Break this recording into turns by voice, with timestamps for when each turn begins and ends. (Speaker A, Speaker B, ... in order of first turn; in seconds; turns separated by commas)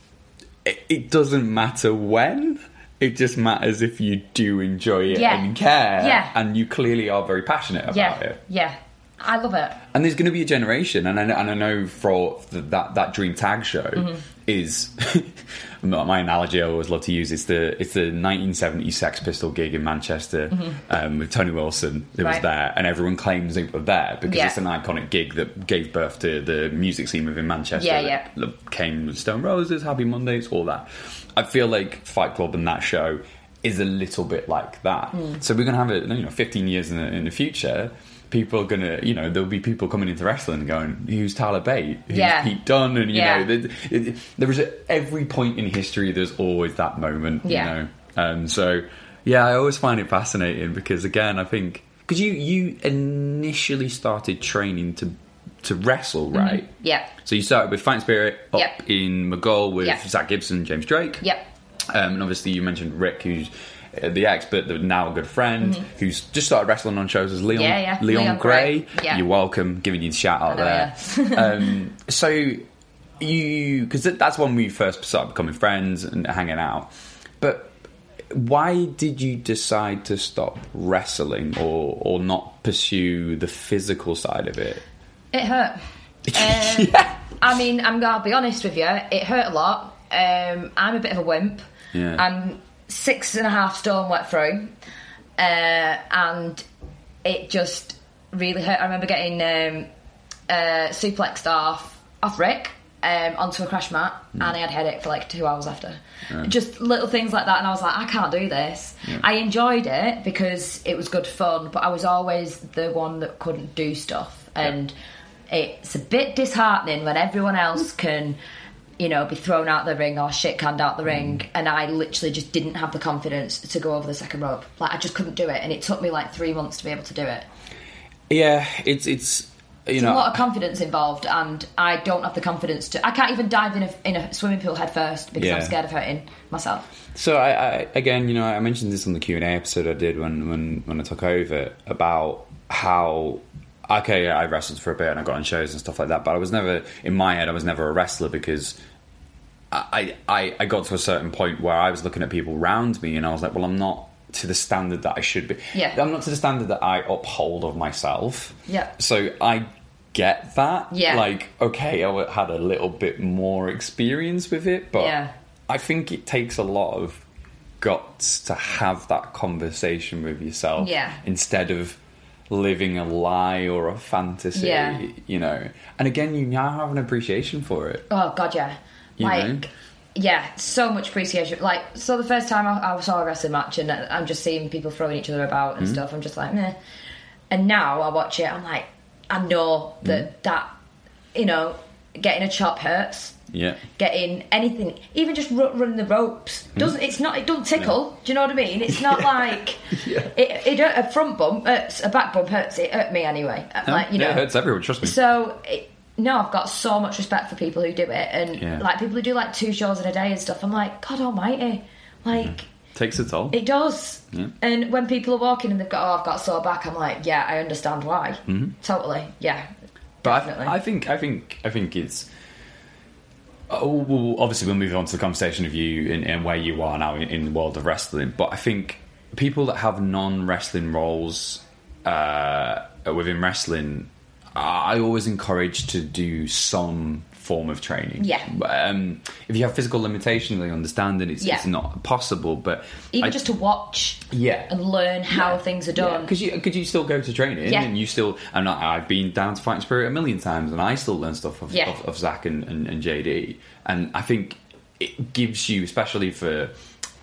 Speaker A: 0.6-8.4, Speaker B: 5.1-6.3, Speaker B: 7.9-9.8, Speaker A: 9.9-61.2, Speaker B: 20.5-20.8, Speaker B: 24.2-24.6, Speaker B: 27.8-28.2, Speaker B: 35.1-35.4, Speaker B: 42.1-42.5, Speaker B: 43.1-43.5, Speaker B: 47.5-47.7, Speaker B: 56.3-57.1, Speaker A: 61.9-72.6, Speaker B: 67.5-69.2, Speaker B: 70.5-71.7, Speaker A: 73.2-77.8, Speaker A: 78.3-84.8, Speaker B: 85.3-91.6, Speaker A: 86.3-87.1, Speaker A: 91.9-92.2, Speaker B: 92.2-94.7, Speaker B: 95.4-96.6, Speaker B: 97.2-99.9, Speaker B: 100.5-114.9, Speaker B: 115.5-118.4, Speaker B: 119.0-127.5, Speaker A: 128.3-130.4, Speaker B: 130.0-136.9, Speaker A: 135.3-135.8, Speaker A: 137.1-148.8, Speaker A: 149.7-165.2, Speaker B: 155.7-156.0, Speaker B: 160.9-161.2, Speaker B: 165.0-165.3, Speaker A: 165.7-167.2, Speaker A: 167.8-172.0, Speaker B: 170.8-171.2, Speaker A: 172.5-178.0, Speaker B: 174.6-175.0, Speaker B: 178.1-186.8, Speaker A: 179.2-179.7, Speaker B: 187.5-190.7, Speaker B: 191.3-193.4, Speaker A: 193.5-193.8, Speaker B: 193.9-204.5, Speaker A: 199.9-200.3, Speaker A: 203.9-205.2, Speaker B: 205.0-212.7, Speaker A: 208.6-208.8, Speaker A: 212.4-213.6, Speaker B: 213.5-219.7, Speaker A: 218.5-218.8, Speaker B: 220.2-220.8, Speaker A: 220.2-222.3, Speaker A: 223.7-243.4, Speaker B: 238.2-238.5, Speaker B: 241.4-241.7, Speaker B: 243.1-246.3, Speaker A: 244.3-244.7, Speaker A: 245.3-256.7, Speaker B: 247.7-247.9